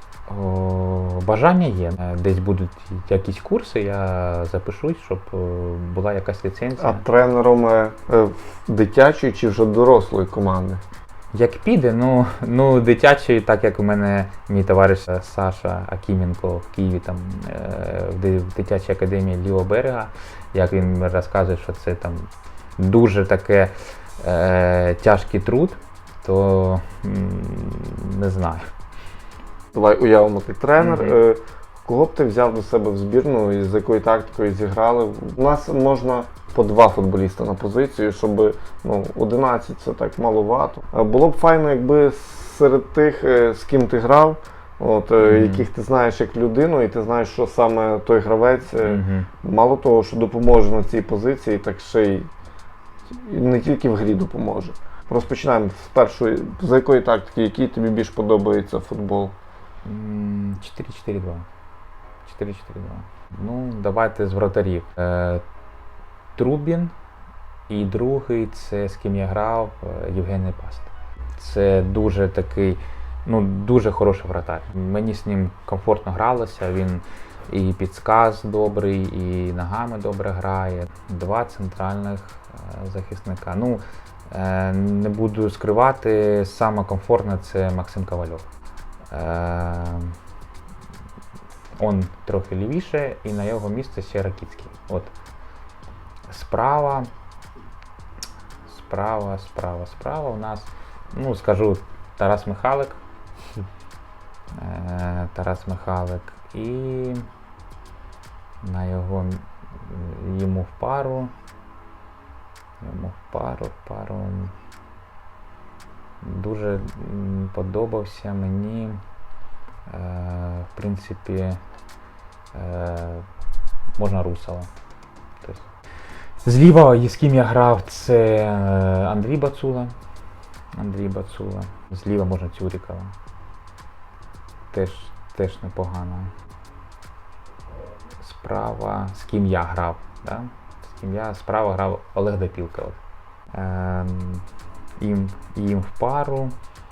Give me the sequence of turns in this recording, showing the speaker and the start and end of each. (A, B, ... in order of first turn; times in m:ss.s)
0:00.3-0:07.0 A
0:06.8-0:10.8 B
0:11.3-0:28.7 A
0:29.7-0:52.3 B
0:30.8-0:31.2 A
0:45.2-0:45.7 A
0:48.8-0:49.3 A
0:53.1-0:59.4 B
0:59.8-1:01.5 A
1:02.2-1:05.4 A
1:06.4-1:06.9 A
1:07.7-1:28.5 A
1:29.1-1:30.2 A
1:31.8-1:35.1 A
1:36.3-1:37.1 A
1:38.7-1:43.0 A
1:44.5-1:47.3 A
1:48.6-1:51.3 A
1:52.8-1:54.5 A
1:56.2-1:59.0 A
1:59.9-2:01.6 A
2:02.5-2:03.3 A
2:04.0-2:04.7 A
2:06.4-2:09.9 A
2:10.8-2:13.1 A
2:14.7-2:16.3 A
2:18.2-2:23.0 A
2:23.5-2:24.4 A
2:25.0-2:26.5 A